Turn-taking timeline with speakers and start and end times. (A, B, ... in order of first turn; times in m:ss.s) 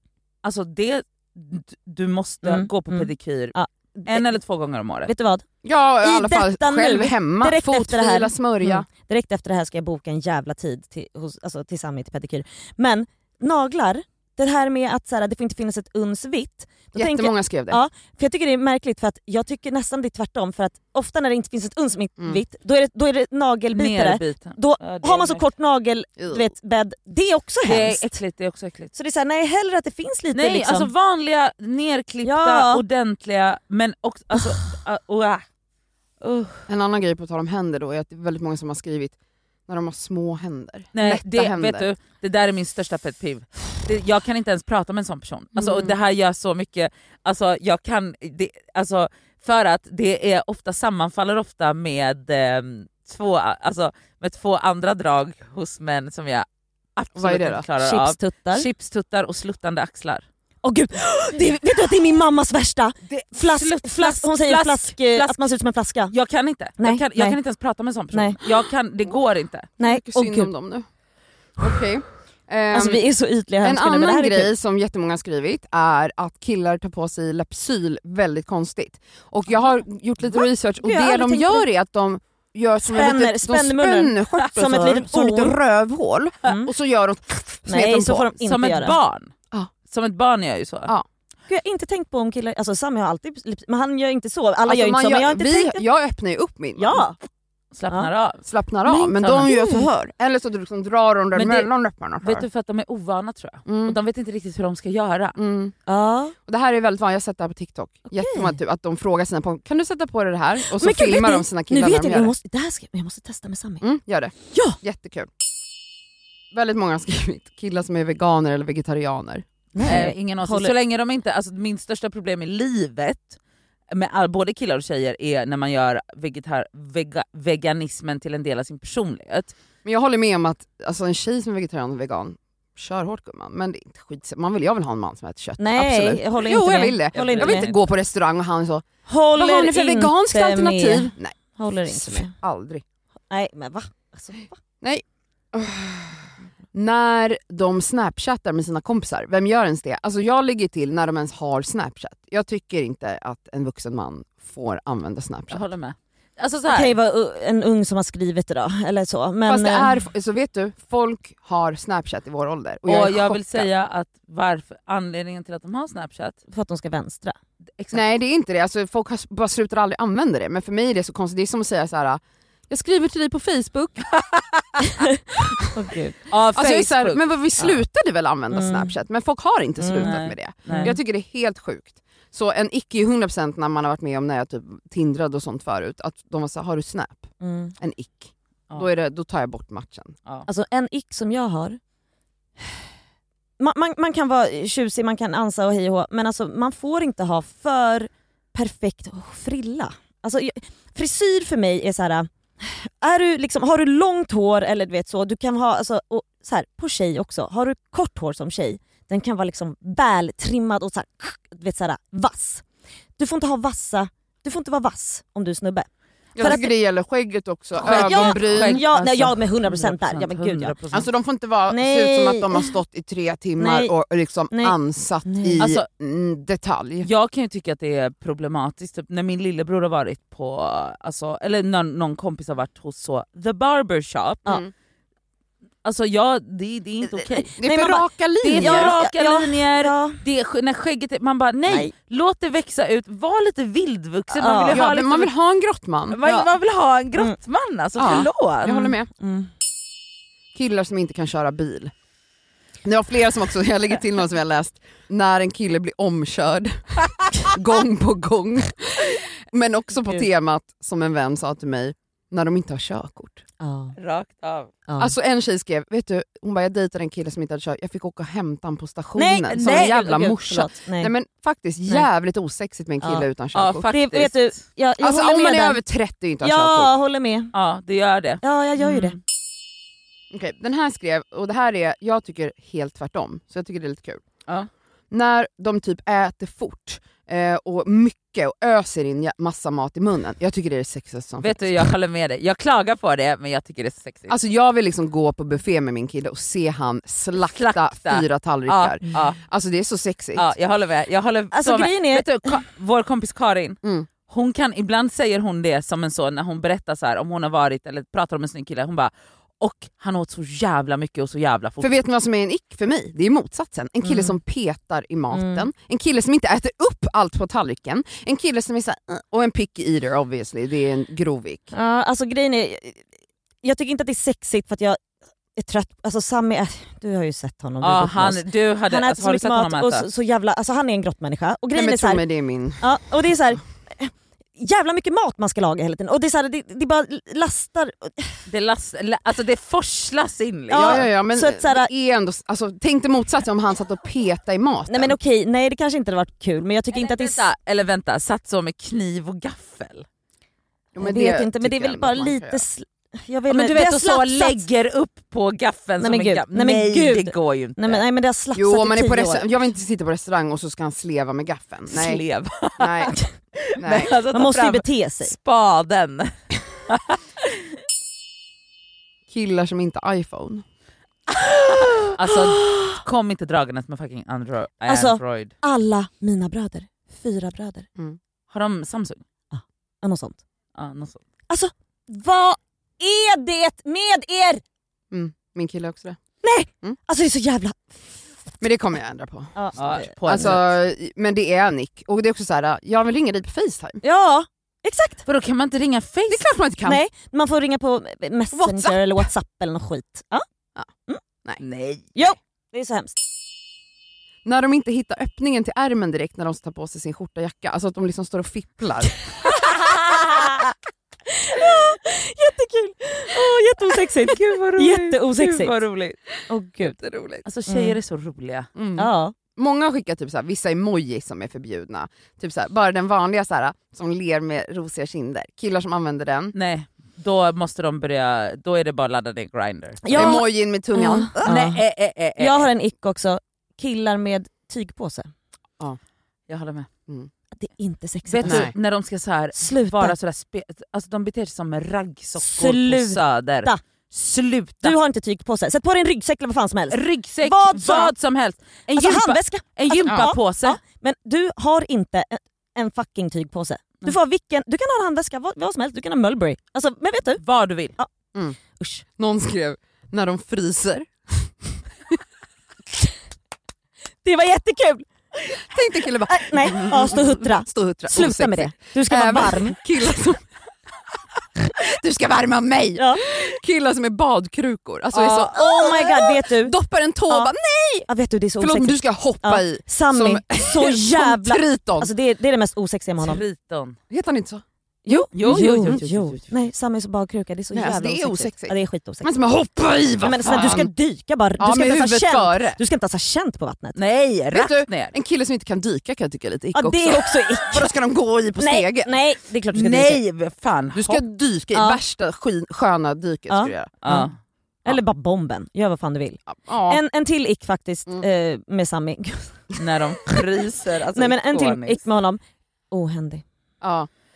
0:00.4-0:03.5 A
0:02.4-0:04.3 B
0:04.0-0:05.1 A
0:05.1-0:05.4 B
0:05.6-0:08.9 C
0:06.0-0:28.2 B
0:16.9-0:17.8 C
0:23.7-0:25.4 A
0:26.2-0:26.5 C
0:27.6-0:28.9 A
0:28.9-0:30.9 B
0:30.3-0:35.4 A
0:32.2-0:32.8 B
0:36.2-0:36.6 A
0:36.7-0:39.2 C
0:39.7-0:41.9 C
0:40.9-1:00.2 A
0:45.6-0:45.9 C
0:57.2-0:57.6 C
0:57.8-0:58.7 B
1:00.6-1:06.1 B
1:03.1-1:05.5 A
1:06.1-1:09.7 A
1:06.8-1:07.4 B
1:08.1-1:08.4 B
1:09.8-1:10.8 C
1:09.8-1:10.5 B
1:11.6-1:13.0 C
1:12.7-1:14.5 B
1:13.6-1:28.3 C
1:20.3-1:21.6 B
1:22.8-1:25.6 B
1:27.7-1:29.0 B
1:28.4-1:29.3 A
1:29.8-1:30.9 A
1:31.5-1:35.8 B
1:34.6-1:37.0 C
1:36.8-1:37.2 B
1:37.7-1:38.4 A
1:38.4-1:42.4 C
1:38.9-1:39.9 B
1:39.2-1:39.5 A
1:41.3-1:41.7 A
1:42.2-1:45.4 A
1:43.7-1:44.0 C
1:45.4-1:45.7 C
1:45.9-1:46.3 B
1:46.4-1:52.3 C
1:48.1-1:48.6 B
1:50.6-1:53.8 B
1:53.8-1:55.3 C
1:56.5-1:59.4 C
1:59.7-2:00.7 B
1:59.8-2:03.4 A
2:03.9-2:09.5 A
2:09.8-2:21.3 C
2:15.6-2:17.7 B
2:17.2-2:17.8 A
2:19.1-2:22.3 B
2:21.9-2:22.8 C
2:23.3-2:24.5 B
2:24.8-2:35.7 C
2:35.5-2:36.9 A
2:36.7-2:39.9 B
2:39.5-2:43.7 C
2:42.9-2:46.4 A
2:46.5-2:47.4 B
2:47.8-2:48.0 A
2:47.9-2:54.1 C
2:54.1-2:54.6 A
2:55.7-2:56.2 B
2:56.3-2:57.2 A
2:56.5-3:10.1 C
2:58.5-2:58.9 B
2:59.8-3:00.9 B
3:00.0-3:00.9 A
3:07.4-3:07.7 B
3:10.4-3:11.8 B
3:13.6-3:32.6 B
3:33.2-3:35.9 B
3:36.4-3:38.8 C
3:36.4-3:36.7 B
3:37.8-3:41.1 A
3:37.8-3:40.7 B
3:40.9-3:47.1 C
3:41.7-3:42.7 B
3:43.6-3:43.9 B
3:44.5-3:45.6 B
3:45.6-3:45.8 A
3:47.0-3:54.5 A
3:55.8-3:57.7 A
3:57.4-3:59.0 C
3:57.6-4:00.2 B
3:58.4-4:05.3 A
4:04.3-4:04.8 B
4:04.7-4:06.2 C
4:06.1-4:08.7 A
4:08.0-4:09.1 C
4:08.6-4:09.5 B
4:10.5-4:11.9 C
4:12.8-4:23.4 C
4:23.6-4:24.0 B
4:24.0-4:24.7 A
4:24.9-4:25.1 B
4:25.0-4:33.9 C
4:29.2-4:31.1 B
4:29.5-4:30.1 A
4:33.5-4:34.5 A
4:33.9-4:35.8 B
4:35.0-4:36.9 C
4:36.4-4:37.5 B
4:37.5-4:39.2 A
4:38.4-4:39.2 B
4:40.3-4:44.2 C
4:45.1-4:51.9 C
4:51.4-4:54.3 A
4:54.3-5:00.5 C
4:57.4-4:59.4 A
5:00.4-5:11.9 A
5:01.5-5:02.5 B
5:11.8-5:21.7 C
5:14.0-5:14.3 B
5:15.3-5:15.6 B
5:21.7-5:23.0 B
5:23.6-5:25.0 B
5:25.6-5:32.2 B
5:27.8-5:30.1 A
5:31.7-5:32.8 C
5:32.8-5:38.3 B
5:38.5-5:41.0 A
5:40.7-5:41.9 B
5:40.7-5:45.2 C
5:44.9-5:47.4 B
5:46.9-5:50.0 A
5:50.9-5:52.6 C
5:51.0-5:54.6 B
5:53.5-5:58.0 A
5:56.0-5:59.4 B
5:58.5-6:02.2 C
6:01.9-6:07.5 A
6:02.8-6:03.2 C
6:03.8-6:04.1 C
6:04.3-6:05.3 B
6:09.3-6:10.6 C
6:12.0-6:15.5 A
6:12.3-6:13.0 B
6:14.9-6:17.9 B
6:18.5-6:19.2 A
6:19.5-6:20.4 B
6:20.7-6:21.2 A
6:21.5-6:24.6 B
6:25.1-6:26.2 C
6:26.4-6:27.8 B
6:28.6-6:34.0 C
6:29.6-6:30.5 B
6:29.8-6:30.7 A
6:34.0-6:35.2 B
6:35.2-6:36.4 A
6:36.3-6:37.0 C
6:36.8-6:40.4 B
6:38.5-6:39.3 C
6:41.6-6:42.1 A
6:42.1-6:43.2 B
6:44.4-6:49.2 C
6:51.3-6:55.7 B
6:54.2-6:56.2 A
6:56.5-6:57.0 B
6:57.0-6:57.4 C
6:57.4-6:58.7 A
6:57.7-6:58.0 B
6:58.8-7:06.5 C
6:59.0-6:59.3 B
7:06.5-7:10.4 A
7:10.0-7:11.8 B
7:10.1-7:11.6 C
7:11.4-7:12.7 A
7:12.4-7:15.3 B
7:16.5-7:16.9 A
7:17.6-7:18.7 B
7:18.3-7:25.0 A
7:18.4-7:18.7 C
7:19.6-7:20.1 B
7:22.4-7:23.8 B
7:24.8-7:28.1 B
7:26.9-7:30.8 A
7:28.9-7:37.4 B
7:37.4-7:37.9 A
7:38.8-7:39.0 B
7:39.2-7:42.2 C
7:44.2-7:45.6 B
7:45.6-7:50.4 C
7:46.3-7:49.8 B
7:51.7-7:58.1 C
7:53.0-7:53.2 B
7:55.2-7:56.7 B
7:55.2-7:55.9 A
7:58.1-8:03.4 B
7:58.6-8:02.1 C
8:03.2-8:04.0 A
8:04.1-8:06.1 C
8:05.0-8:09.3 B
8:05.3-8:06.5 A
8:07.7-8:10.9 C
8:10.2-8:14.0 B
8:10.4-8:10.8 A
8:11.6-8:12.8 C
8:13.9-8:15.1 A
8:14.5-8:19.1 C
8:16.7-8:17.9 B
8:18.6-8:20.2 B
8:19.7-8:21.2 A
8:20.9-8:23.9 C
8:21.7-8:22.0 B
8:23.5-8:24.3 B
8:24.0-8:24.3 A
8:24.8-8:29.6 B
8:26.5-8:27.0 C
8:29.8-8:32.0 A
8:31.2-8:32.4 B
8:32.9-8:33.4 B
8:33.8-8:34.1 C